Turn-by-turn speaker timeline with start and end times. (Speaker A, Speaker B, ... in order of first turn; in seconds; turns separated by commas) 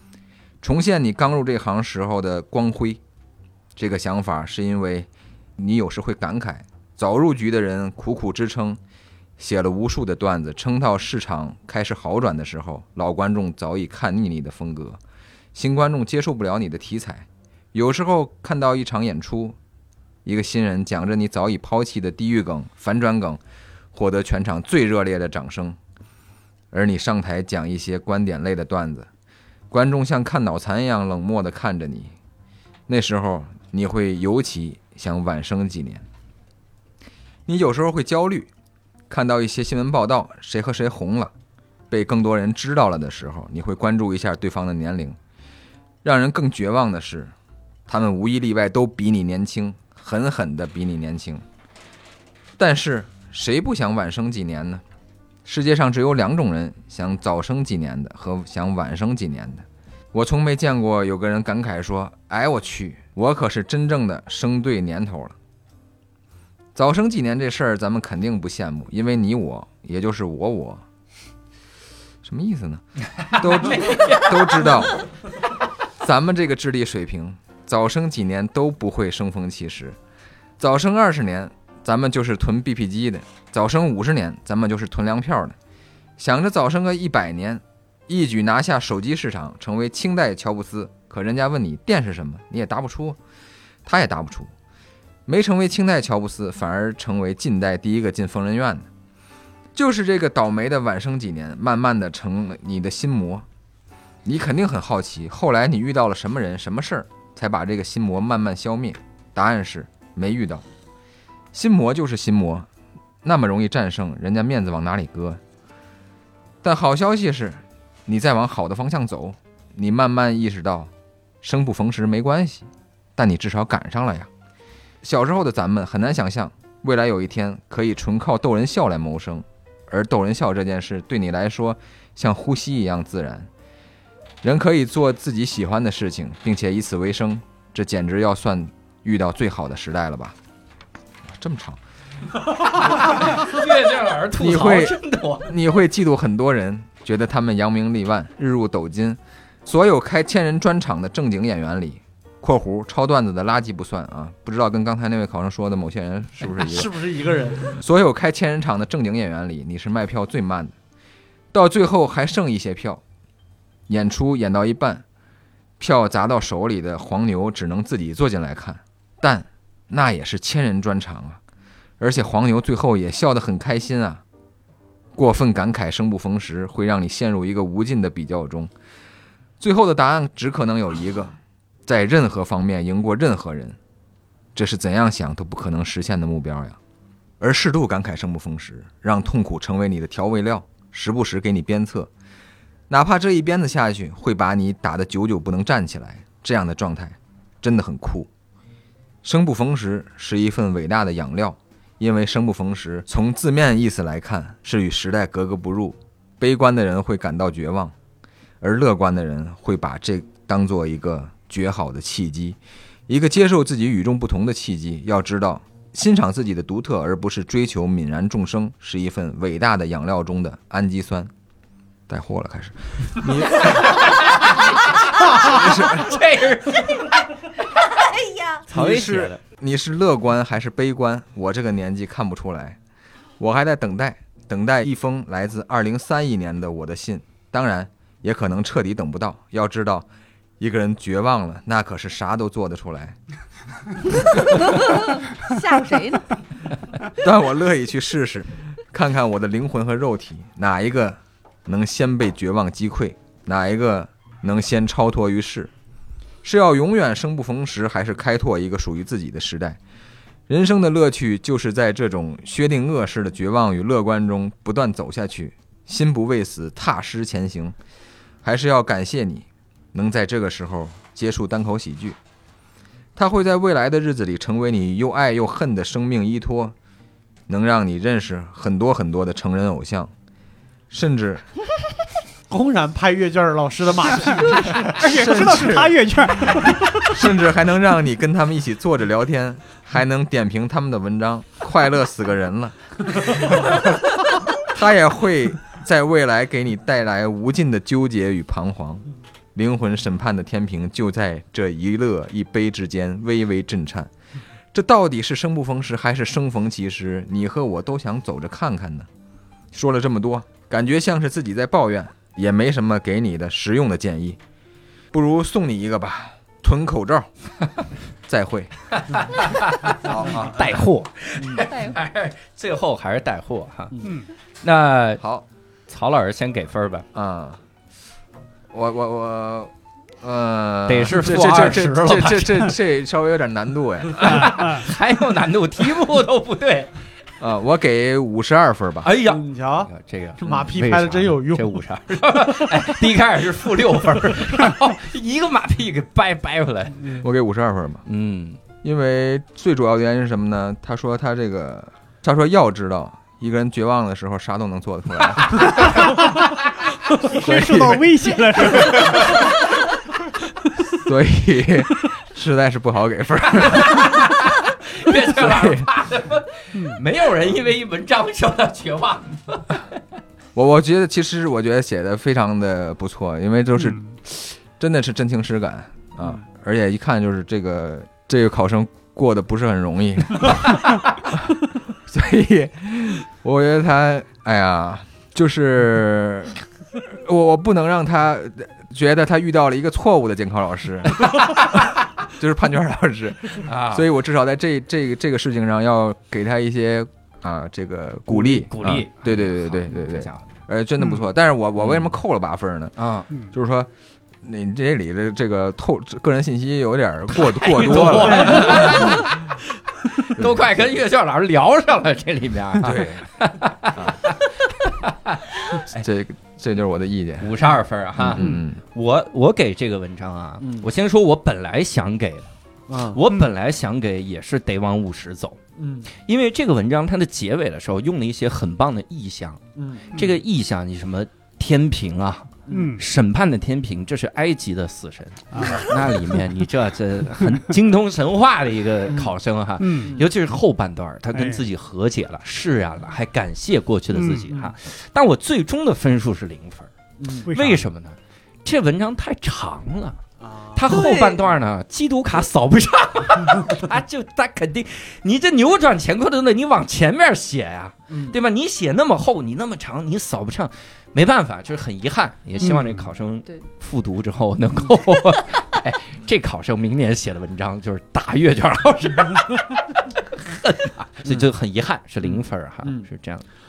Speaker A: 0.6-3.0, Speaker A: 3.8-8.8, Speaker A: 9.4-15.0, Speaker A: 15.6-19.6, Speaker A: 20.2-23.4, Speaker A: 23.9-25.8, Speaker A: 26.7-29.1, Speaker A: 29.7-32.1, Speaker A: 32.9-36.0, Speaker A: 37.5-38.5, Speaker A: 39.1-41.3, Speaker A: 41.9-45.2, Speaker A: 46.0-47.3, Speaker A: 47.9-51.4, Speaker A: 52.6-54.8, Speaker A: 55.5-65.3, Speaker A: 66.8-70.8, Speaker A: 72.2-75.0, Speaker B: 73.2-74.9, Speaker A: 76.0-80.0, Speaker A: 80.6-85.6, Speaker A: 86.2-93.2, Speaker A: 93.8-94.5, Speaker A: 95.3-98.9, Speaker A: 99.8-103.5, Speaker A: 104.2-110.6, Speaker A: 111.5-112.7, Speaker A: 113.2-115.4, Speaker A: 116.6-120.9, Speaker A: 121.4-124.3, Speaker A: 125.0-133.5, Speaker A: 134.4-140.4, Speaker A: 141.3-141.8, Speaker B: 142.7-145.6, Speaker A: 144.4-145.0, Speaker A: 145.5-156.9, Speaker C: 156.4-157.8, Speaker A: 157.7-160.7, Speaker A: 161.5-163.0, Speaker A: 163.9-165.0, Speaker A: 165.8-171.4, Speaker A: 172.0-174.2, Speaker A: 175.2-178.7, Speaker A: 179.6-183.8, Speaker A: 184.6-186.8, Speaker A: 187.4-192.1, Speaker A: 192.9-198.3, Speaker A: 199.2-207.9, Speaker A: 208.6-221.3, Speaker A: 222.1-224.2, Speaker B: 223.6-227.9, Speaker A: 225.4-226.2, Speaker D: 227.9-228.6, Speaker B: 228.7-229.4, Speaker A: 228.7-232.8, Speaker A: 233.4-240.1, Speaker A: 240.6-243.2, Speaker D: 244.6-246.3, Speaker A: 247.2-255.7, Speaker A: 256.4-259.8, Speaker A: 260.5-267.8, Speaker A: 268.4-272.2, Speaker A: 273.2-276.7, Speaker A: 277.5-280.1, Speaker A: 280.9-281.4, Speaker C: 282.5-284.9, Speaker E: 284.9-286.8, Speaker A: 285.0-294.0, Speaker A: 294.6-304.1, Speaker A: 304.7-309.1, Speaker A: 309.7-314.4, Speaker A: 315.1-317.3, Speaker A: 318.3-318.7, Speaker B: 318.9-324.0, Speaker A: 320.0-320.7, Speaker C: 321.4-321.6, Speaker B: 324.6-325.2, Speaker B: 325.9-327.1, Speaker A: 327.1-327.6, Speaker A: 328.7-329.7, Speaker A: 330.2-334.7, Speaker B: 330.9-332.7, Speaker B: 334.2-336.9, Speaker E: 334.3-334.8, Speaker A: 337.4-339.1, Speaker B: 339.0-347.2, Speaker C: 339.2-341.8, Speaker A: 347.2-348.0, Speaker B: 348.1-348.6, Speaker A: 348.8-356.2, Speaker B: 355.3-356.2, Speaker E: 357.3-359.4, Speaker A: 357.4-358.0, Speaker A: 358.7-359.4, Speaker A: 361.0-364.5, Speaker B: 363.5-369.8, Speaker A: 365.2-365.9, Speaker E: 366.8-367.0, Speaker A: 370.6-381.4, Speaker E: 373.8-374.1, Speaker A: 382.1-402.9, Speaker B: 393.6-394.1, Speaker B: 398.3-400.5, Speaker B: 401.8-402.1, Speaker B: 403.0-403.3, Speaker A: 403.5-403.9, Speaker A: 404.4-409.2, Speaker B: 407.3-409.6, Speaker C: 408.6-408.9, Speaker B: 410.3-416.0, Speaker A: 410.4-410.7, Speaker A: 412.8-413.2, Speaker A: 415.9-417.5, Speaker B: 417.4-422.5, Speaker A: 418.2-418.8, Speaker C: 420.6-420.9, Speaker C: 422.9-423.2, Speaker B: 423.1-425.6, Speaker C: 425.8-426.1, Speaker B: 426.2-429.6, Speaker C: 429.8-430.1, Speaker B: 430.1-446.9, Speaker C: 432.7-432.9, Speaker E: 432.7-433.0, Speaker E: 435.5-435.9, Speaker C: 439.1-439.3, Speaker E: 439.8-440.1, Speaker E: 441.3-441.6, Speaker E: 444.1-444.5, Speaker C: 447.2-447.5, Speaker B: 447.5-450.2, Speaker E: 447.5-447.8, Speaker C: 450.4-451.2, Speaker B: 450.7-473.4, Speaker D: 450.9-451.3, Speaker C: 458.1-458.4, Speaker E: 462.6-462.9, Speaker C: 472.2-473.1